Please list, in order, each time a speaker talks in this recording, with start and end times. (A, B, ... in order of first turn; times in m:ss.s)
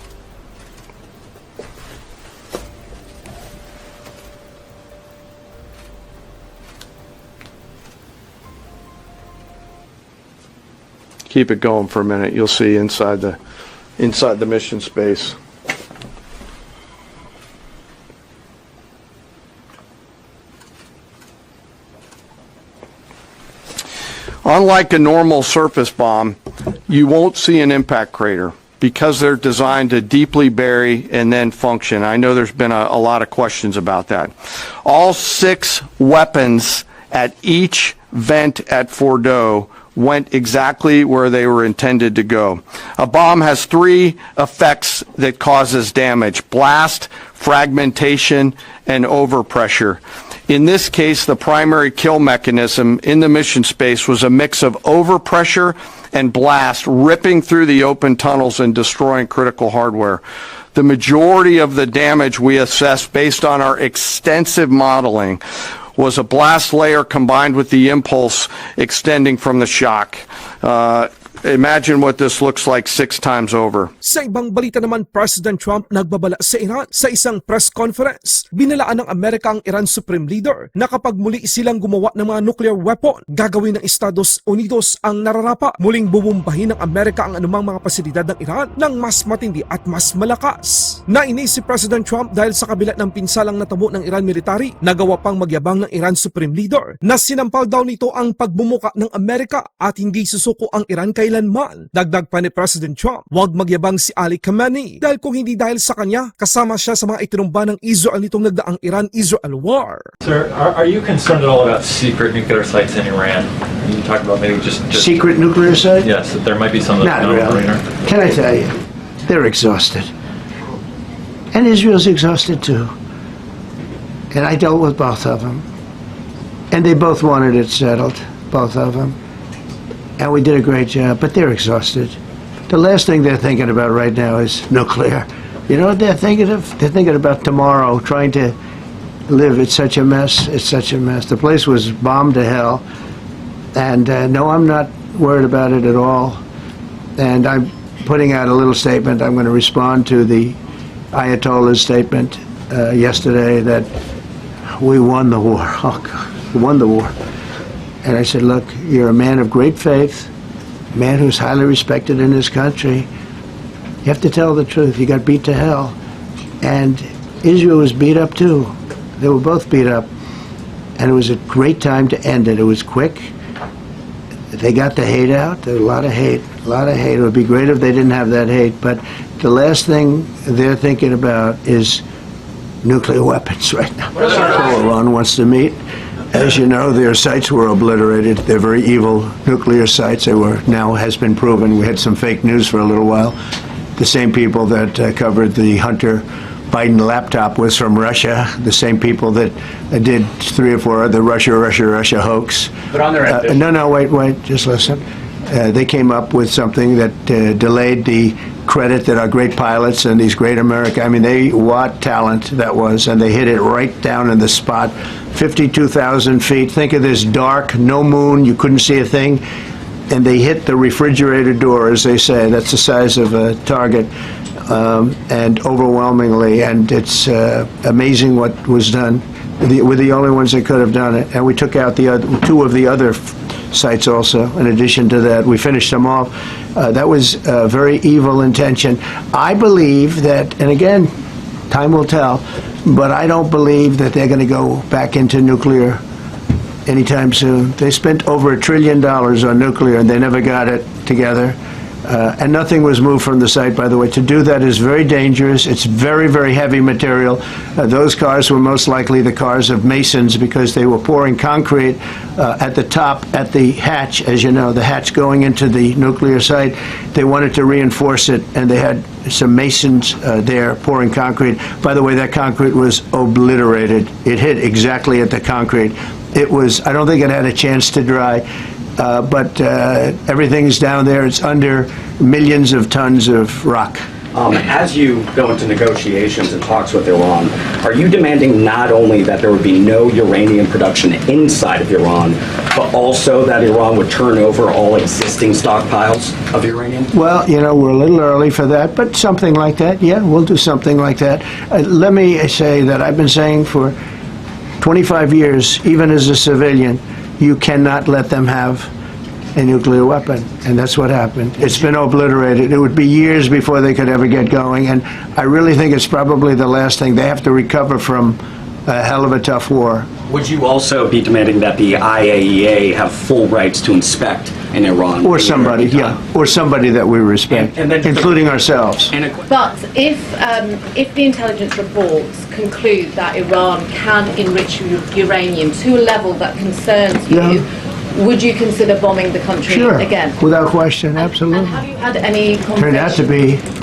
0:11.3-0:13.4 A
0:14.0-0:15.4 A
0:24.4-0:26.4 A
0:26.9-0:34.3 A
0:34.8-1:00.2 A
1:00.8-1:05.4 A
1:06.0-1:13.9 A
1:14.0-1:50.1 B
1:50.2-1:55.1 C
1:54.9-1:56.1 D
1:56.0-1:57.8 C
1:57.0-1:58.7 D
1:59.3-2:00.1 D
2:01.5-2:02.9 D
2:04.3-2:05.7 D
2:06.7-2:09.2 D
2:10.2-2:12.2 D
2:12.7-2:18.6 D
2:19.3-2:22.8 D
2:23.7-2:26.4 D
2:27.2-2:30.6 D
2:31.1-2:33.9 D
2:34.8-2:37.1 D
2:38.0-2:40.3 D
2:40.9-2:43.1 D
2:44.0-2:46.0 D
2:46.6-2:50.1 D
2:51.0-2:53.3 D
2:54.5-3:02.0 D
3:02.8-3:05.8 D
3:06.3-3:13.3 D
3:14.0-3:22.7 D
3:22.9-3:23.6 E
3:23.3-3:39.4 D
3:40.1-3:44.1 D
3:44.6-4:01.1 D
4:01.7-4:06.0 D
4:06.8-4:38.4 D
4:39.0-4:44.0 D
4:44.3-4:57.1 E
4:57.1-5:04.0 D
5:04.8-5:08.9 D
5:09.5-5:20.1 D
5:20.3-5:26.2 E
5:25.2-5:29.1 D
5:27.5-5:28.5 E
5:29.1-5:29.4 E
5:29.5-5:40.4 F
5:37.3-5:37.6 D
5:39.7-5:41.8 D
5:41.2-5:43.4 F
5:42.8-5:43.6 D